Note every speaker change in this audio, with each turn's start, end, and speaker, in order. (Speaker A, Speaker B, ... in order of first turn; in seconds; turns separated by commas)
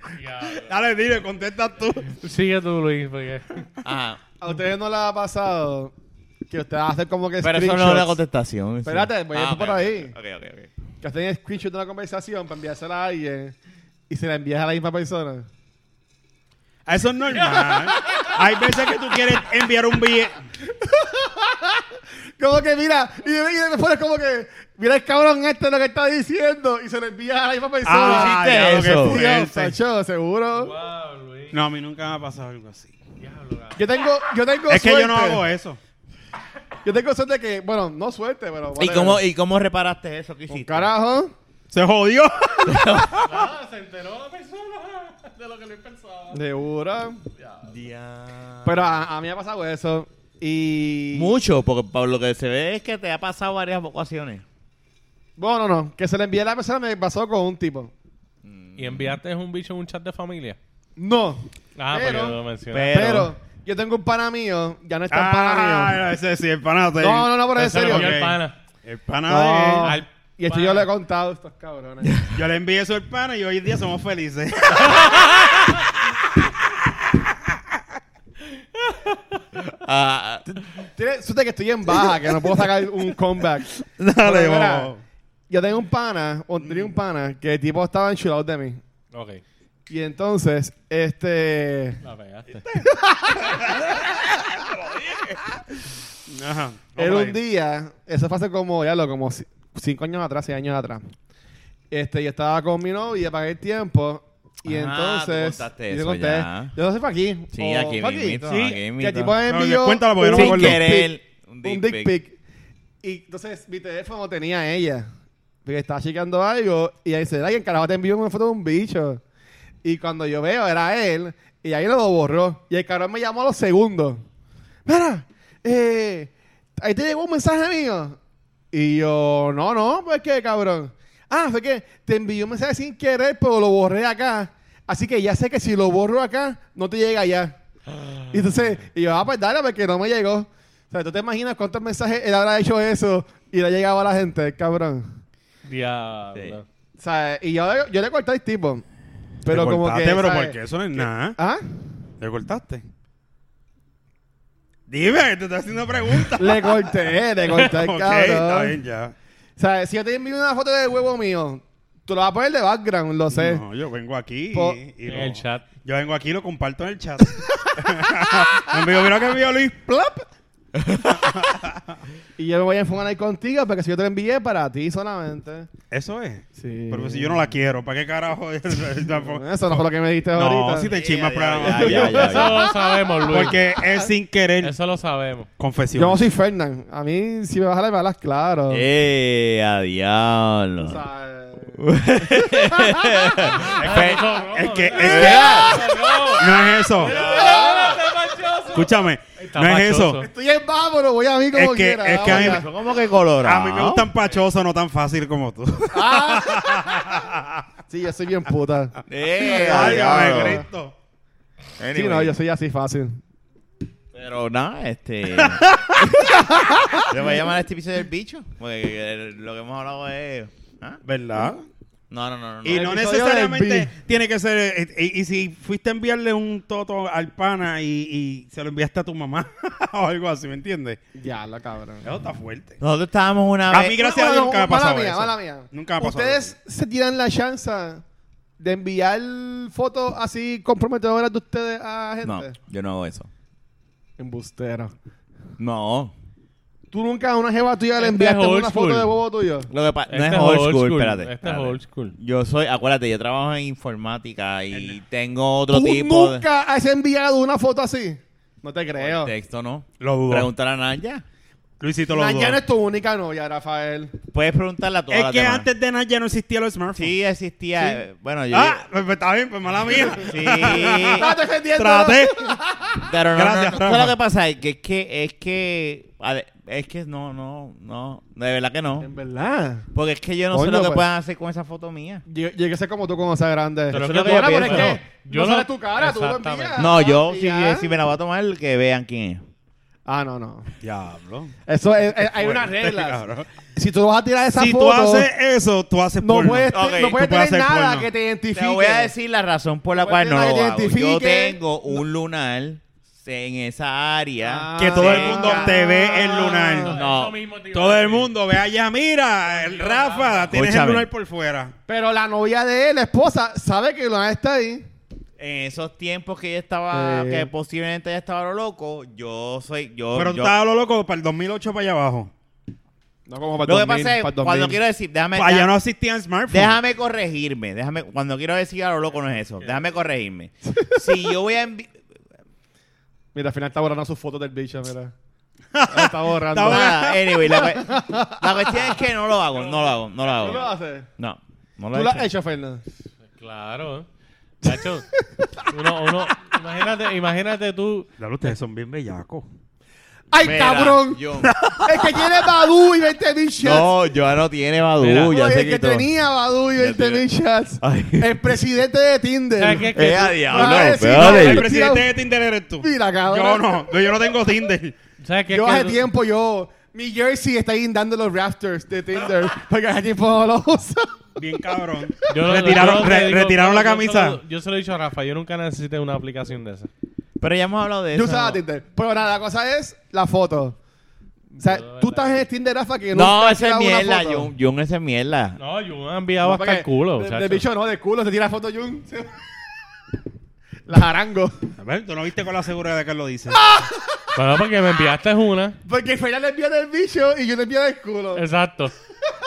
Speaker A: 0.1-0.7, Speaker B: 0.4-2.1, Speaker A: 2.1-3.6, Speaker C: 3.8-4.2, Speaker D: 4.4-5.9, Speaker D: 6.5-8.1, Speaker C: 7.4-10.7, Speaker D: 8.8-10.1, Speaker D: 11.0-13.6, Speaker D: 14.1-15.5, Speaker B: 16.9-20.4, Speaker D: 17.4-18.4, Speaker D: 20.6-30.7, Speaker B: 27.8-29.8, Speaker C: 28.0-29.2, Speaker A: 30.5-31.6, Speaker B: 31.5-32.9, Speaker A: 33.2-33.8, Speaker D: 33.7-35.4, Speaker B: 34.7-35.8, Speaker D: 36.8-39.2, Speaker C: 38.7-40.9, Speaker D: 40.5-41.3, Speaker B: 41.7-43.0, Speaker C: 42.6-43.5, Speaker A: 43.2-46.4, Speaker D: 46.3-47.2, Speaker A: 47.4-47.7, Speaker C: 47.6-49.0, Speaker D: 48.6-51.3, Speaker C: 51.1-54.4, Speaker D: 55.4-57.9, Speaker C: 58.4-59.2, Speaker A: 58.8-60.6, Speaker D: 61.0-62.4, Speaker A: 61.8-63.1, Speaker C: 62.7-63.3, Speaker D: 62.9-66.0, Speaker B: 65.1-70.0, Speaker D: 67.0-68.1, Speaker A: 67.6-68.6, Speaker D: 69.3-72.1, Speaker A: 69.8-70.9, Speaker C: 72.0-72.3, Speaker B: 72.3-75.7, Speaker C: 79.5-80.7, Speaker D: 80.8-84.9, Speaker C: 82.0-82.6, Speaker B: 84.0-85.0, Speaker D: 85.5-88.8, Speaker B: 86.6-86.9, Speaker A: 89.1-89.4, Speaker D: 89.9-92.0, Speaker A: 92.0-92.7, Speaker D: 92.8-93.7, Speaker B: 93.5-95.4, Speaker B: 96.2-97.4, Speaker D: 97.0-101.0, Speaker D: 101.9-111.1, Speaker C: 104.6-106.7, Speaker C: 107.5-109.4, Speaker B: 108.5-108.8, Speaker B: 109.5-110.8, Speaker C: 110.3-112.2, Speaker D: 111.6-112.3, Speaker D: 113.0-115.1, Speaker D: 115.6-119.2, Speaker D: 119.8-124.2, Speaker D: 124.8-128.2, Speaker D: 128.7-137.6, Speaker D: 138.3-145.2, Speaker A: 145.6-146.7, Speaker D: 147.0-148.8, Speaker D: 149.4-151.6, Speaker B: 149.5-151.4, Speaker B: 152.2-152.8, Speaker B: 154.9-159.1, Speaker D: 156.4-158.8, Speaker D: 159.6-163.6, Speaker B: 163.3-169.9, Speaker D: 164.5-164.8, Speaker A: 165.1-165.6, Speaker D: 167.6-169.2, Speaker D: 169.9-170.2, Speaker C: 170.7-171.2, Speaker B: 171.0-172.0, Speaker D: 172.4-175.7, Speaker B: 175.9-182.3, Speaker D: 176.6-177.4, Speaker D: 179.1-180.9, Speaker C: 180.8-182.7, Speaker D: 181.6-184.1, Speaker A: 182.1-183.6, Speaker B: 183.3-184.7, Speaker A: 184.6-185.5, Speaker B: 185.6-186.3, Speaker D: 186.0-188.8, Speaker C: 188.7-191.0, Speaker D: 190.8-193.7, Speaker C: 191.7-194.2, Speaker B: 193.7-195.7, Speaker A: 193.8-200.3, Speaker C: 194.9-195.8, Speaker D: 195.0-198.0, Speaker B: 196.4-197.2, Speaker C: 197.1-197.9, Speaker B: 198.7-200.2, Speaker D: 200.2-202.6, Speaker B: 201.5-202.7, Speaker C: 202.2-204.1, Speaker B: 203.4-207.6, Speaker D: 205.9-206.9, Speaker D: 207.9-210.6, Speaker C: 209.1-210.6, Speaker B: 209.4-210.9, Speaker C: 211.8-212.3, Speaker D: 211.9-213.2, Speaker C: 214.1-221.0, Speaker B: 215.4-216.0, Speaker D: 216.7-217.0, Speaker B: 221.0-221.7, Speaker C: 222.1-222.9, Speaker B: 222.6-231.0, Speaker D: 222.7-223.9, Speaker D: 231.1-232.1, Speaker B: 232.0-232.8, Speaker C: 232.8-234.0, Speaker B: 233.7-236.5, Speaker D: 233.9-238.0, Speaker D: 238.6-242.5, Speaker C: 242.2-243.3, Speaker D: 244.2-244.9, Speaker C: 245.6-246.1, Speaker D: 246.9-249.7, Speaker A: 248.0-249.1, Speaker C: 249.7-256.4, Speaker A: 250.1-252.1, Speaker B: 254.7-255.0, Speaker D: 255.7-259.3, Speaker C: 259.0-261.2, Speaker B: 260.0-260.5, Speaker B: 261.8-262.6, Speaker D: 262.1-264.1, Speaker C: 264.3-265.7, Speaker B: 265.1-267.1, Speaker C: 266.9-268.8, Speaker B: 268.5-272.6, Speaker C: 270.2-271.3, Speaker D: 271.1-273.0, Speaker C: 272.9-279.1, Speaker B: 273.3-274.1, Speaker D: 279.0-279.9, Speaker C: 279.9-282.2, Speaker D: 280.5-281.0, Speaker D: 282.3-287.9, Speaker C: 283.9-285.0, Speaker A: 283.9-286.9, Speaker C: 286.8-289.4, Speaker D: 290.1-290.7, Speaker B: 290.8-291.5, Speaker D: 291.7-295.3, Speaker B: 292.1-293.5, Speaker B: 294.5-298.1, Speaker D: 296.2-299.1, Speaker C: 296.7-297.2, Speaker C: 298.5-305.8, Speaker D: 299.9-302.0, Speaker D: 304.4-307.0, Speaker B: 304.8-307.0, Speaker A: 306.8-308.3, Speaker C: 306.9-307.4, Speaker B: 307.7-311.7, Speaker A: 309.5-310.5, Speaker C: 310.5-311.1, Speaker D: 311.9-314.8, Speaker C: 315.4-320.5, Speaker D: 316.9-317.5, Speaker B: 320.1-322.3, Speaker D: 323.3-324.8, Speaker C: 323.6-325.7, Speaker B: 325.3-326.8, Speaker C: 326.5-332.0, Speaker A: 329.6-329.9, Speaker D: 330.7-331.0, Speaker D: 333.3-335.1, Speaker B: 335.7-337.4, Speaker D: 335.9-339.0, Speaker C: 336.6-340.6, Speaker D: 340.3-341.1, Speaker C: 341.2-342.3, Speaker D: 341.9-342.8, Speaker A: 343.3-344.1, Speaker A: 344.6-345.1, Speaker D: 344.6-346.3, Speaker A: 345.7-348.1, Speaker B: 348.2-349.4, Speaker D: 350.3-351.2, Speaker C: 350.4-352.4, Speaker D: 351.8-353.9, Speaker C: 353.6-356.1, Speaker A: 355.0-355.4, Speaker D: 355.3-362.1, Speaker C: 356.7-357.2, Speaker C: 357.8-358.5, Speaker A: 359.6-360.9, Speaker C: 359.9-361.7, Speaker B: 360.9-364.9, Speaker D: 362.8-363.8, Speaker A: 365.2-366.0, Speaker D: 365.5-371.2, Speaker B: 371.4-374.4, Speaker A: 372.3-376.9, Speaker D: 372.3-373.0, Speaker C: 377.4-378.6, Speaker D: 378.1-380.8, Speaker A: 381.5-382.4, Speaker D: 381.6-384.5, Speaker C: 383.1-385.6, Speaker A: 385.6-387.6, Speaker D: 386.4-389.4, Speaker D: 390.9-391.7, Speaker B: 391.8-393.6, Speaker D: 393.5-394.2, Speaker A: 394.3-395.8, Speaker D: 395.8-398.4, Speaker A: 398.3-398.9